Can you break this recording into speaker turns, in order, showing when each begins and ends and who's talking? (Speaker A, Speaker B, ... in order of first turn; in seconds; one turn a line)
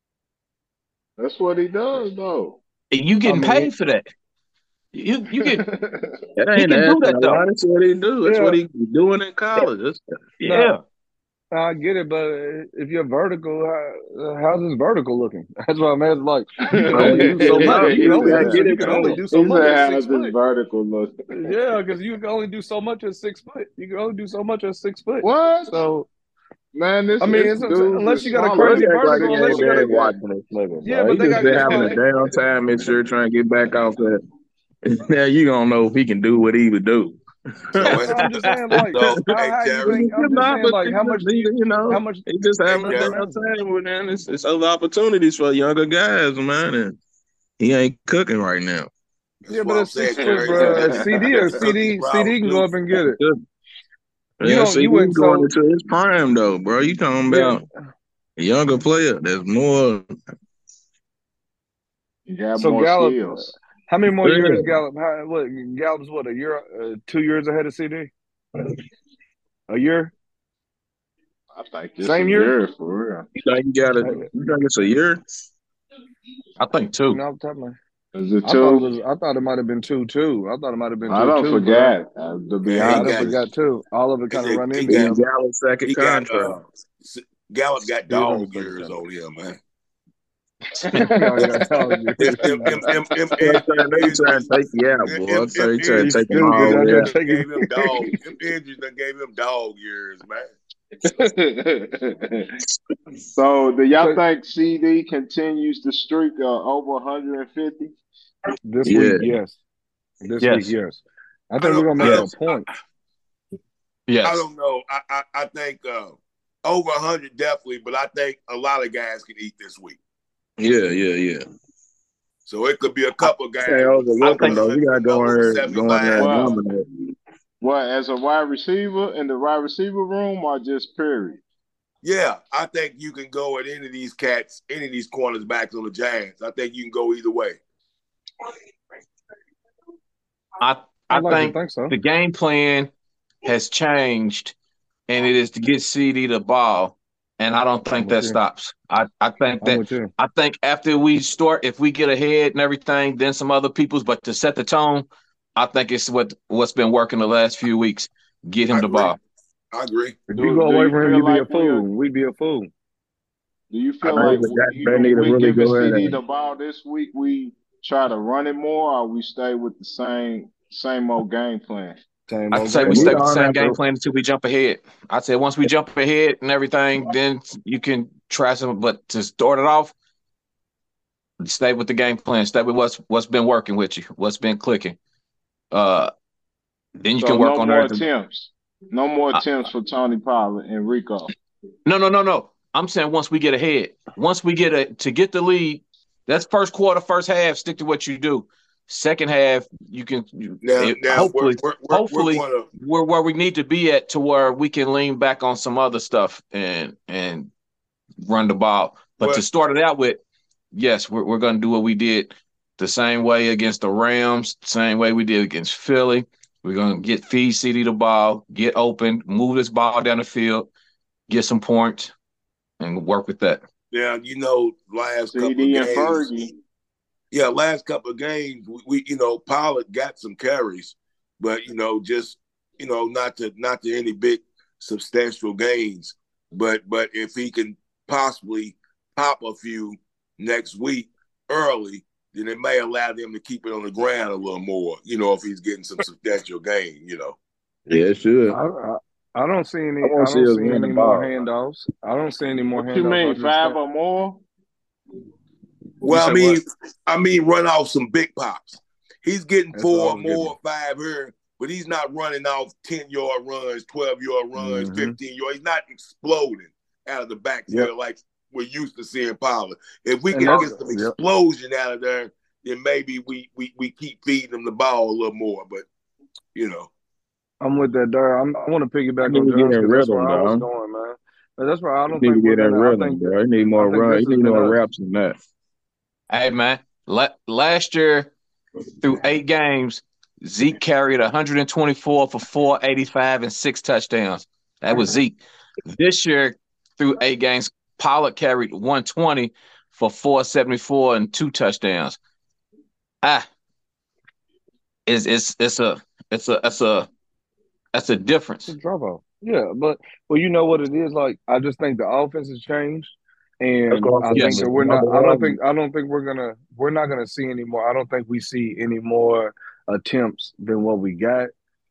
Speaker A: 1.2-2.6
Speaker B: 2.9-4.1
Speaker C: 3.2-3.7
Speaker B: 4.9-5.6
Speaker A: 5.3-6.2
Speaker D: 6.4-10.0
Speaker B: 6.5-7.4
Speaker C: 8.2-8.6
Speaker B: 10.4-10.8
Speaker C: 10.4-10.8
Speaker C: 11.5-20.3
Speaker A: 16.7-21.5
Speaker D: 16.9-19.8
Speaker C: 21.3-26.1
Speaker A: 25.2-25.7
Speaker A: 26.7-30.2
Speaker C: 27.2-29.9
Speaker D: 28.5-34.2
Speaker C: 30.8-32.0
Speaker A: 31.5-31.9
Speaker D: 34.9-37.2
Speaker D: 37.7-38.0
Speaker E: 37.8-40.1
Speaker B: 37.8-38.6
Speaker C: 38.0-43.4
Speaker D: 39.0-39.2
Speaker D: 39.8-47.0
Speaker E: 42.6-43.1
Speaker D: 47.6-48.9
Speaker E: 49.4-52.7
Speaker C: 49.5-53.2
Speaker A: 50.2-51.5
Speaker D: 52.9-53.4
Speaker D: 54.4-57.6
Speaker C: 54.4-55.5
Speaker C: 57.3-57.6
Speaker D: 58.4-60.1
Speaker A: 62.3-63.5
Speaker C: 62.6-68.1
Speaker D: 64.2-64.8
Speaker C: 69.7-70.1
Speaker A: 71.5-73.3
Speaker C: 72.0-72.5
Speaker D: 73.3-75.2
Speaker C: 74.0-74.3
Speaker B: 76.6-77.2
Speaker C: 77.1-77.8
Speaker A: 78.1-78.9
Speaker C: 78.4-81.9
Speaker A: 81.1-83.4
Speaker E: 82.6-83.4
Speaker C: 82.8-85.2
Speaker E: 84.3-85.2
Speaker D: 84.9-86.6
Speaker E: 85.8-89.6
Speaker C: 88.1-88.9
Speaker B: 90.9-91.4
Speaker A: 90.9-91.5
Speaker C: 90.9-92.8
Speaker E: 92.2-94.5
Speaker D: 93.4-97.1
Speaker E: 95.0-100.5
Speaker C: 95.9-98.0
Speaker A: 101.0-102.5
Speaker A: 103.3-107.9
Speaker C: 108.6-109.6
Speaker D: 108.8-109.3
Speaker C: 110.2-112.7
Speaker B: 110.4-110.7
Speaker E: 111.6-112.7
Speaker B: 112.0-112.2
Speaker B: 114.1-114.4
Speaker E: 114.2-120.0
Speaker D: 120.6-121.4
Speaker E: 122.5-126.4
Speaker D: 123.6-127.1
Speaker B: 124.2-124.6
Speaker A: 126.2-126.6
Speaker A: 127.6-131.4
Speaker E: 132.0-137.6
Speaker B: 140.6-142.9
Speaker C: 141.1-141.9
Speaker B: 143.4-144.5
Speaker B: 145.1-159.2
Speaker C: 148.0-148.4
Speaker C: 149.6-150.1
Speaker E: 158.7-159.2
Speaker E: 159.7-160.2
Speaker C: 160.3-162.7
Speaker A: 160.4-161.8
Speaker A: 163.7-172.0
Speaker D: 164.0-166.2
Speaker C: 172.3-173.3
Speaker B: 172.5-179.9
Speaker D: 172.7-173.8
Speaker B: 181.4-185.0
Speaker B: 185.7-186.1
Speaker B: 187.0-188.0
Speaker A: 187.2-191.3
Speaker B: 191.8-207.5
Speaker E: 200.6-202.7
Speaker B: 208.2-210.2
Speaker B: 210.7-220.7
Speaker B: 221.3-222.1
Speaker B: 222.8-223.6
Speaker E: 223.9-226.3
Speaker A: 225.3-226.5
Speaker E: 227.3-247.4
Speaker D: 247.9-248.6
Speaker C: 248.5-253.8
Speaker D: 250.0-251.3
Speaker A: 252.7-254.4
Speaker C: 256.0-256.6
Speaker E: 256.0-275.8
Speaker C: 259.7-260.5
Speaker C: 264.6-265.1
Speaker C: 270.3-271.1
Speaker E: 276.5-276.9
Speaker C: 277.6-283.2
Speaker D: 279.2-280.7
Speaker D: 282.1-285.4
Speaker C: 283.8-284.8
Speaker B: 286.3-288.3
Speaker B: 289.0-302.2
Speaker B: 305.1-307.1
Speaker B: 307.9-308.7
Speaker C: 308.7-321.5
Speaker D: 313.9-315.6
Speaker B: 314.3-314.7